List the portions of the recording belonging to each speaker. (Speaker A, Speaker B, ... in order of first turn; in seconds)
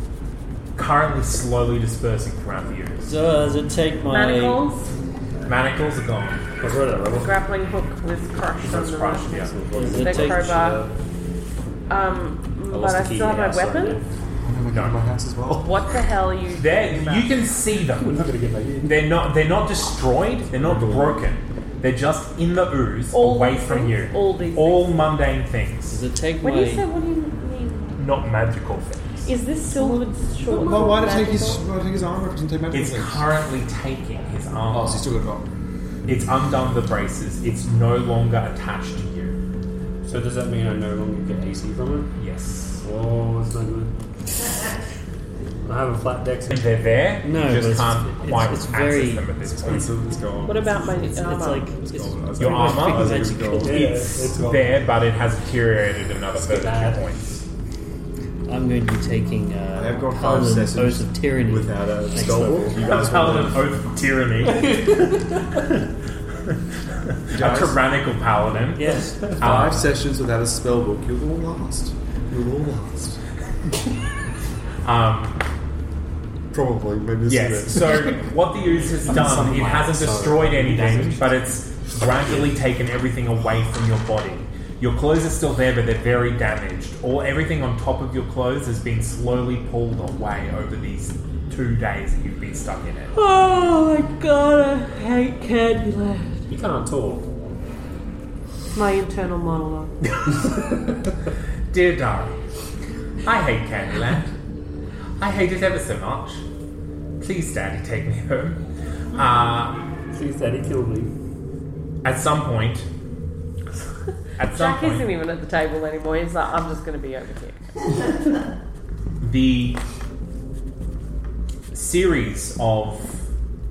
Speaker A: 0.8-3.2, 5.5-6.5, 8.6-9.5, 14.7-15.0, 16.6-18.3, 18.8-26.0, 28.0-29.3, 32.7-35.1, 36.1-39.4, 42.1-42.8, 46.5-49.9, 52.4-57.4, 62.9-65.8, 67.1-69.8, 74.8-75.4, 77.3-93.1, 101.7-102.4, 103.2-104.3, 105.2-106.4, 107.2-108.6, 109.1-109.8, 112.0-112.9, 114.4-115.1, 119.2-119.8, 121.7-123.2
Speaker B: 3.1-4.7, 9.8-10.6, 25.9-26.9, 47.2-49.9, 50.9-53.9, 58.5-63.4, 68.8-69.7
Speaker C: 4.1-4.9, 7.2-10.8, 11.9-14.0, 15.6-17.3, 23.1-25.1, 26.4-28.1, 29.2-31.6, 50.5-51.7, 93.1-96.5, 98.7-100.0, 114.4-117.6
Speaker D: 6.6-7.4, 8.7-10.9, 12.7-14.0, 17.9-19.1, 40.0-42.1, 42.8-43.9, 45.6-46.7, 53.6-54.9, 56.4-57.1, 64.4-65.4, 68.8-69.8, 79.0-81.4, 82.1-82.5, 96.5-97.3, 110.1-111.1
Speaker E: 14.4-15.9, 20.6-21.2, 29.7-33.3, 34.7-35.5, 49.6-50.7, 51.8-54.0, 59.8-63.7, 67.3-67.8, 69.4-73.2, 76.5-78.2